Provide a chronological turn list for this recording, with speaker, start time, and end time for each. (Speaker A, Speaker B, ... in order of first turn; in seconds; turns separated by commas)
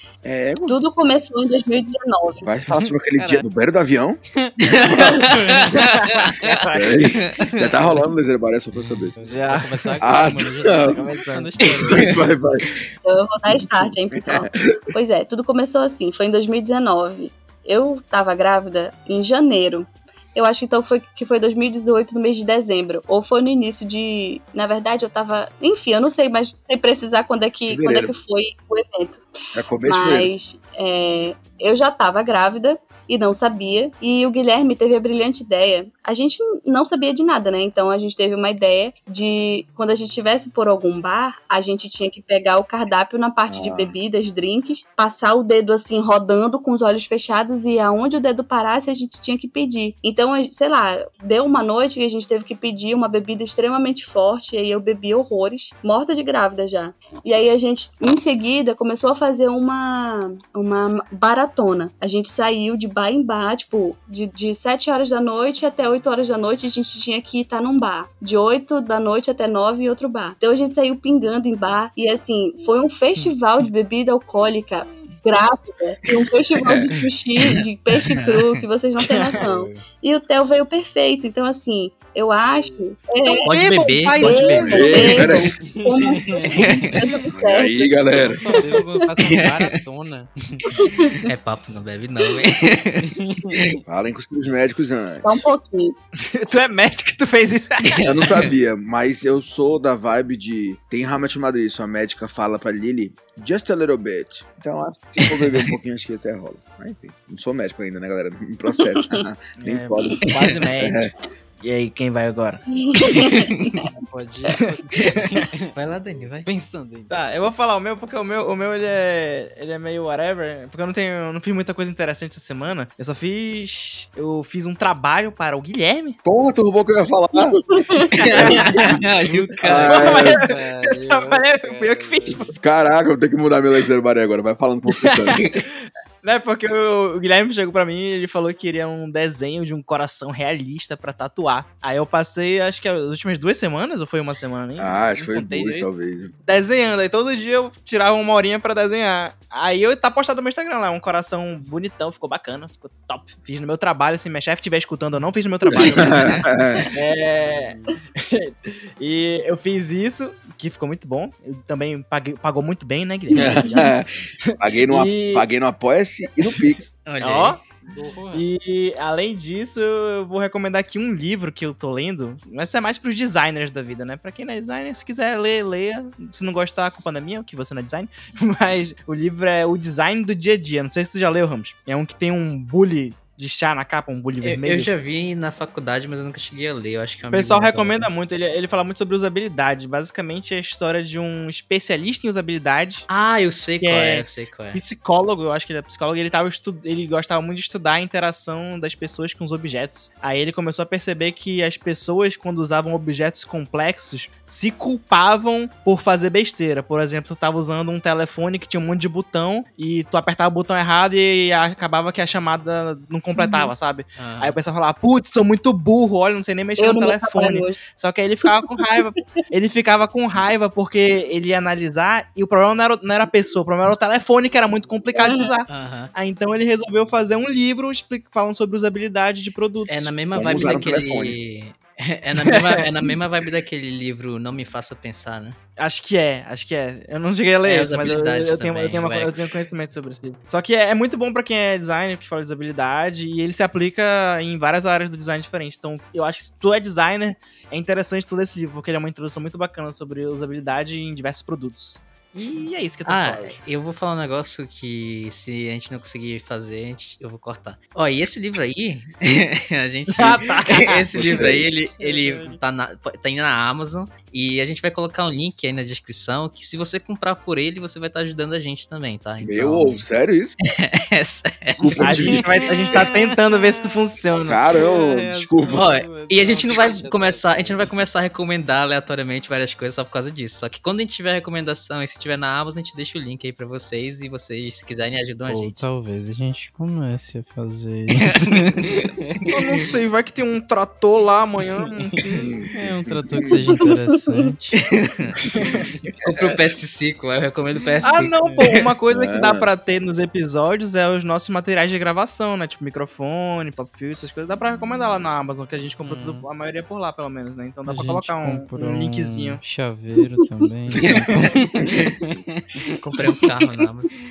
Speaker A: 0.2-0.8, Speaker B: 0.7-2.5, Speaker A: 2.4-4.2, Speaker C: 2.9-3.5, Speaker C: 4.5-5.7, Speaker D: 4.7-6.7, Speaker A: 4.8-5.4, Speaker E: 5.6-7.8, Speaker A: 6.7-9.2, Speaker C: 9.2-12.2, Speaker E: 9.2-10.2, Speaker A: 10.0-11.0, Speaker E: 10.8-11.7, Speaker A: 11.8-12.8, Speaker B: 13.1-29.2, Speaker A: 13.6-14.8, Speaker A: 27.7-28.1, Speaker A: 29.5-30.3, Speaker B: 29.9-83.5, Speaker A: 43.5-43.9, Speaker D: 78.0-78.6, Speaker C: 79.3-79.8, Speaker E: 83.3-85.3, Speaker D: 83.4-85.0, Speaker B: 84.2-88.0, Speaker A: 84.7-85.5, Speaker C: 85.7-86.5, Speaker D: 86.6-87.0, Speaker A: 87.3-88.5, Speaker C: 88.3-90.9, Speaker B: 88.5-89.0, Speaker D: 89.3-89.7, Speaker B: 90.7-91.3, Speaker D: 91.3-93.8, Speaker C: 93.0-93.6, Speaker A: 93.9-95.5, Speaker B: 95.2-96.0, Speaker E: 96.2-98.1, Speaker D: 97.9-98.5, Speaker A: 98.1-110.3, Speaker D: 105.2-105.6, Speaker E: 109.6-111.1, Speaker A: 110.8-111.1, Speaker E: 111.6-112.6, Speaker B: 112.7-113.8, Speaker C: 113.8-115.8, Speaker E: 114.5-115.3, Speaker D: 115.8-116.5, Speaker C: 116.5-117.5, Speaker E: 117.1-126.2, Speaker A: 126.2-127.6, Speaker B: 127.6-128.1, Speaker E: 128.2-128.8, Speaker D: 128.2-130.0, Speaker A: 128.2-129.0, Speaker A: 129.6-130.4, Speaker E: 129.8-132.6, Speaker C: 129.9-132.5, Speaker A: 132.5-135.4, Speaker E: 134.9-145.9, Speaker A: 144.8-146.3, Speaker E: 146.5-165.4, Speaker A: 155.7-156.9, Speaker C: 157.2-158.0, Speaker A: 163.3-166.8, Speaker D: 167.1-167.6, Speaker E: 167.2-167.6, Speaker C: 167.9-168.5, Speaker E: 168.3-184.9, Speaker D: 184.4-188.1, Speaker E: 187.3-193.1, Speaker D: 193.1-194.8, Speaker E: 193.8-230.1, Speaker B: 213.4-213.7, Speaker D: 214.2-214.6, Speaker B: 216.8-217.8, Speaker B: 218.4-218.8, Speaker B: 225.2-225.5, Speaker D: 225.7-226.1, Speaker D: 229.9-235.6, Speaker A: 230.3-231.4, Speaker E: 232.4-232.9, Speaker E: 235.8-253.6, Speaker D: 237.7-239.6, Speaker D: 253.1-270.0, Speaker E: 260.1-261.1, Speaker A: 261.1-261.7, Speaker C: 262.0-262.6, Speaker A: 269.4-270.6, Speaker D: 270.7-272.0, Speaker A: 271.9-272.5, Speaker E: 272.0-274.8, Speaker C: 272.0-273.9, Speaker A: 274.5-275.9, Speaker C: 274.7-278.0, Speaker D: 275.7-285.8, Speaker C: 285.5-289.4, Speaker D: 288.2-289.9, Speaker E: 289.5-292.6, Speaker A: 292.3-292.7, Speaker C: 292.7-294.9, Speaker A: 293.4-293.8, Speaker D: 294.9-295.3, Speaker E: 295.4-295.9, Speaker C: 295.6-296.0, Speaker D: 296.2-298.4, Speaker E: 298.0-309.6, Speaker C: 298.4-298.7, Speaker A: 299.1-299.7, Speaker C: 306.0-306.5, Speaker C: 307.9-312.8, Speaker D: 311.0-311.9, Speaker E: 311.1-311.4, Speaker D: 313.0-314.1